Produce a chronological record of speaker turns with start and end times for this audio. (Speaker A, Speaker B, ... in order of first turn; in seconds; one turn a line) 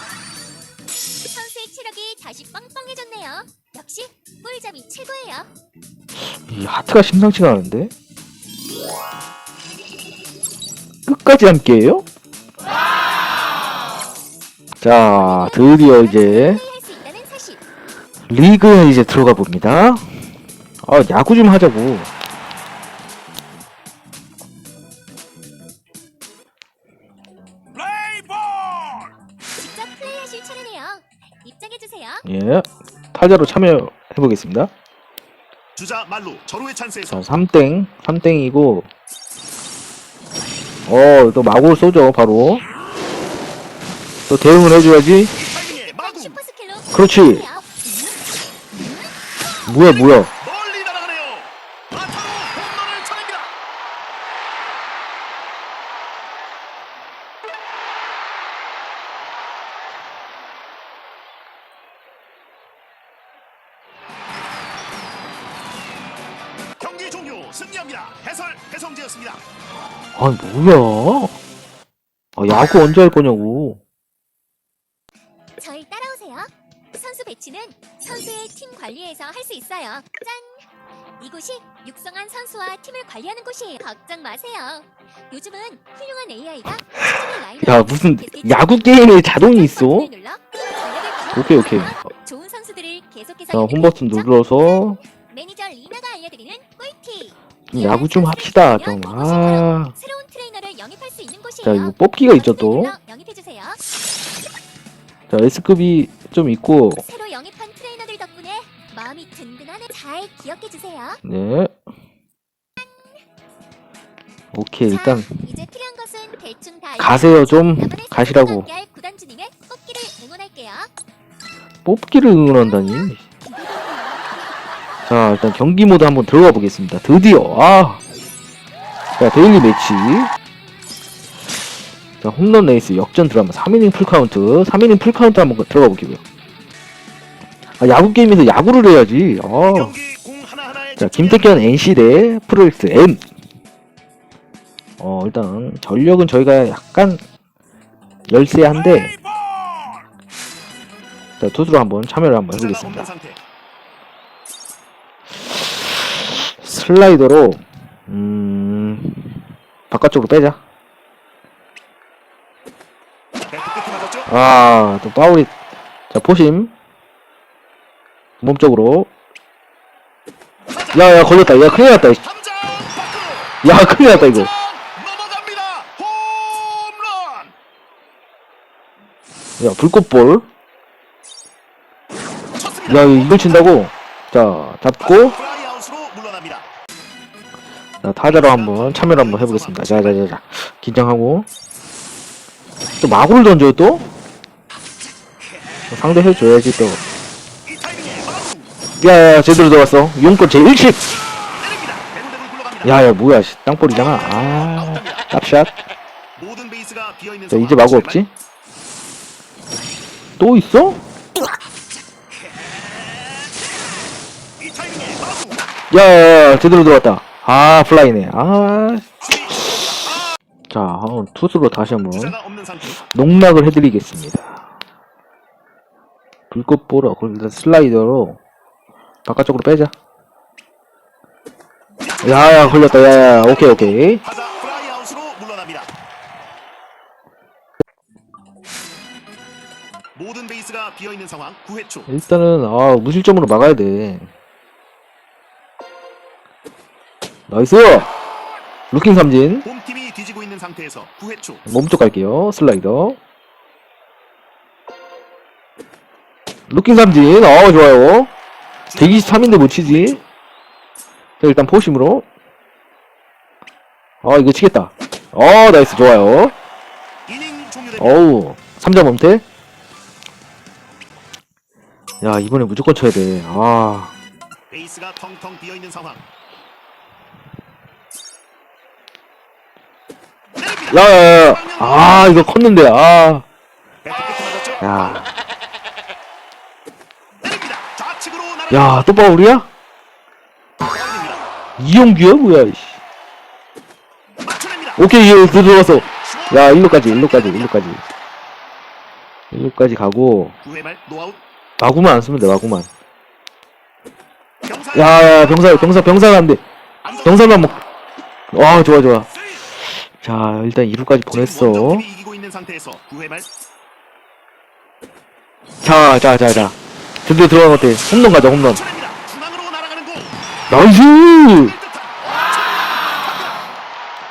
Speaker A: 1.3-5.5
Speaker B: 6.2-7.9
Speaker B: 11.1-12.0
Speaker B: 14.8-16.6
Speaker A: 15.1-17.6
Speaker B: 18.3-20.1
Speaker B: 20.8-22.1
Speaker C: 27.8-29.1
Speaker A: 29.5-32.2
Speaker B: 32.2-34.7
Speaker C: 35.8-37.3
Speaker B: 37.1-38.9
Speaker B: 40.9-42.6
Speaker B: 44.3-45.3
Speaker C: 45.3-46.4
Speaker A: 45.6-48.2
Speaker B: 46.9-47.5
Speaker A: 48.8-49.0
Speaker B: 49.6-50.3
Speaker C: 50.4-53.5
Speaker C: 66.8-69.4
Speaker B: 70.1-71.4
Speaker B: 72.3-73.8
Speaker A: 75.6-80.7
Speaker A: 81.2-103.8
Speaker B: 87.6-90.1
Speaker B: 91.3-92.0
Speaker B: 93.5-95.0
Speaker B: 97.7-99.9
Speaker B: 101.6-102.9
Speaker B: 105.3-107.0
Speaker A: 107.0-111.2
Speaker B: 111.2-111.7
Speaker B: 114.5-115.5
Speaker A: 114.9-120.9
Speaker B: 117.0-118.7
Speaker B: 121.8-123.2
Speaker A: 122.6-124.5
Speaker B: 125.1-128.0
Speaker B: 129.2-130.3
Speaker B: 132.2-136.2
Speaker B: 137.8-140.0
Speaker C: 139.6-141.6
Speaker B: 141.0-143.2
Speaker B: 145.0-147.2
Speaker B: 148.3-149.1
Speaker C: 148.7-150.0
Speaker B: 151.4-153.1
Speaker C: 152.5-153.4
Speaker B: 155.9-160.6
Speaker C: 163.5-164.3
Speaker B: 164.2-165.5
Speaker B: 166.1-166.7
Speaker B: 168.4-169.1
Speaker C: 170.7-177.5
Speaker B: 170.9-172.2
Speaker B: 173.6-174.5
Speaker B: 179.6-180.4
Speaker C: 182.5-183.8
Speaker B: 182.9-185.4
Speaker C: 185.0-186.7
Speaker B: 188.0-191.5
Speaker C: 188.3-190.3
Speaker B: 193.0-194.0
Speaker B: 195.9-197.0
Speaker C: 197.7-198.7
Speaker B: 199.0-201.1
Speaker C: 201.4-203.0
Speaker B: 202.8-205.7
Speaker C: 203.9-205.3
Speaker C: 206.4-208.2
Speaker B: 207.5-208.3
Speaker B: 210.4-211.0
Speaker C: 212.4-213.6
Speaker C: 214.6-215.7
Speaker B: 215.9-219.1
Speaker C: 219.2-220.3
Speaker B: 220.7-222.4
Speaker C: 222.0-223.0
Speaker B: 223.0-224.7
Speaker B: 226.5-228.4
Speaker B: 229.2-229.9
Speaker C: 232.0-235.9
Speaker B: 232.2-234.2
Speaker C: 240.2-242.1
Speaker B: 242.1-244.3
Speaker B: 247.5-248.1
Speaker B: 248.9-249.7
Speaker C: 249.6-251.6
Speaker B: 251.7-253.2
Speaker B: 256.7-258.3
Speaker C: 258.9-260.2
Speaker B: 259.0-260.2
Speaker B: 261.4-262.2
Speaker B: 264.2-266.5
Speaker C: 267.3-268.2
Speaker B: 268.0-269.4
Speaker B: 272.2-274.1
Speaker C: 274.7-276.2
Speaker C: 280.6-282.5
Speaker B: 280.9-283.4
Speaker C: 284.0-285.2
Speaker B: 284.8-285.3
Speaker C: 287.4-289.1
Speaker B: 288.7-289.7
Speaker C: 290.8-291.4
Speaker B: 291.8-293.0
Speaker C: 294.4-295.0
Speaker B: 294.9-298.0
Speaker C: 296.0-297.7
Speaker B: 299.5-300.5
Speaker C: 300.6-301.4
Speaker B: 301.8-302.9
Speaker C: 304.6-306.1
Speaker B: 304.9-306.6
Speaker C: 307.0-307.8
Speaker B: 307.2-307.8
Speaker B: 308.5-309.3
Speaker B: 309.9-312.1
Speaker C: 311.3-313.5
Speaker B: 315.8-318.8
Speaker C: 317.9-320.3
Speaker B: 320.7-321.8
Speaker C: 321.6-323.6